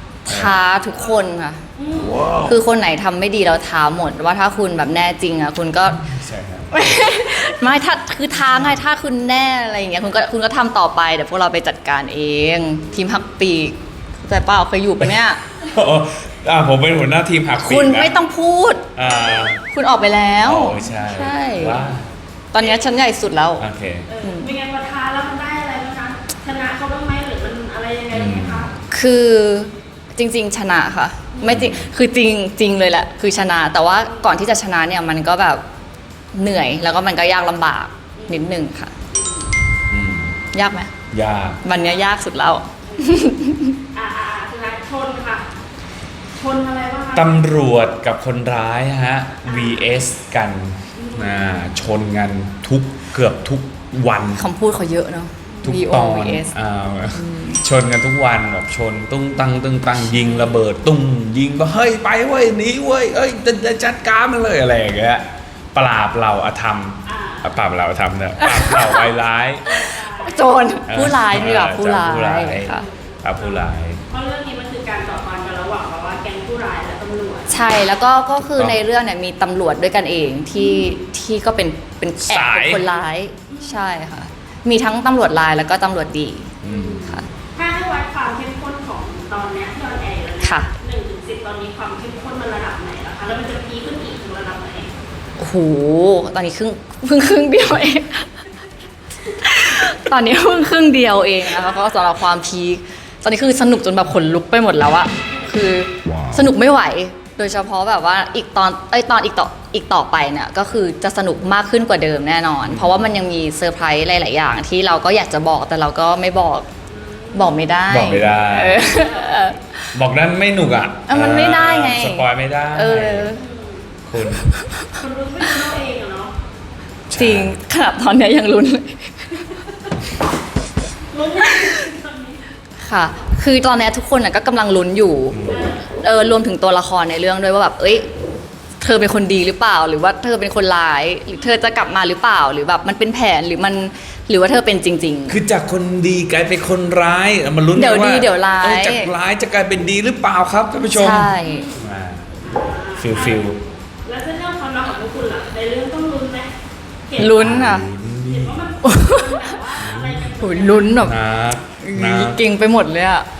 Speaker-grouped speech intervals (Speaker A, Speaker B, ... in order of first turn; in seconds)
Speaker A: 0.3-1.6, 2.4-6.1, 6.7-15.4, 17.5-18.9, 19.6-21.8, 22.5-23.6, 24.2-24.5, 28.9-35.6, 36.3-38.9, 40.5-40.9, 41.6-43.8, 54.4-56.5, 57.1-57.6, 68.4-69.1, 70.2-72.9, 77.5-87.3, 90.4-90.7, 95.4-98.5, 99.4-116.7, 117.3-119.7, 121.1-123.4, 127.2-129.5, 132.8-138.1, 138.8-145.4, 147.7-149.1, 150.9-151.7, 157.2-157.9, 158.8-159.5, 160.4-161.2, 161.8-163.3
Speaker B: 0.3-0.6, 2.0-2.6, 5.9-6.8, 15.0-18.1, 19.0-19.6, 20.4-22.1, 23.6-24.1, 28.1-28.7, 31.4-31.9, 39.9-40.4, 41.1-41.6, 47.1-54.4, 55.6-69.7, 70.9-74.0, 82.2-82.9, 86.6-87.0, 112.7-113.1, 117.9-118.8, 119.9-123.4, 124.1-124.5, 127.1-127.6, 135.3-135.8, 145.3-153.6, 157.2-158.8, 159.8-160.4, 161.0-162.4
Speaker C: 0.9-1.2, 1.8-2.3, 22.6-22.9, 24.1-28.7, 31.4-31.7, 34.0-34.3, 38.2-38.5, 39.1-39.5, 41.8-42.1, 42.9-43.2, 43.9-45.5, 46.4-47.4, 49.5-49.9, 51.0-51.5, 67.0-67.5, 69.7-70.7, 72.7-77.6, 80.6-80.9, 83.5-83.9, 86.7-94.9, 101.6-101.9, 116.9-117.7, 118.6-119.6, 123.4-123.9, 125.0-126.3, 131.1-132.5, 135.5-135.9, 151.4-151.8, 152.5-156.5, 157.1-157.4, 158.2-161.0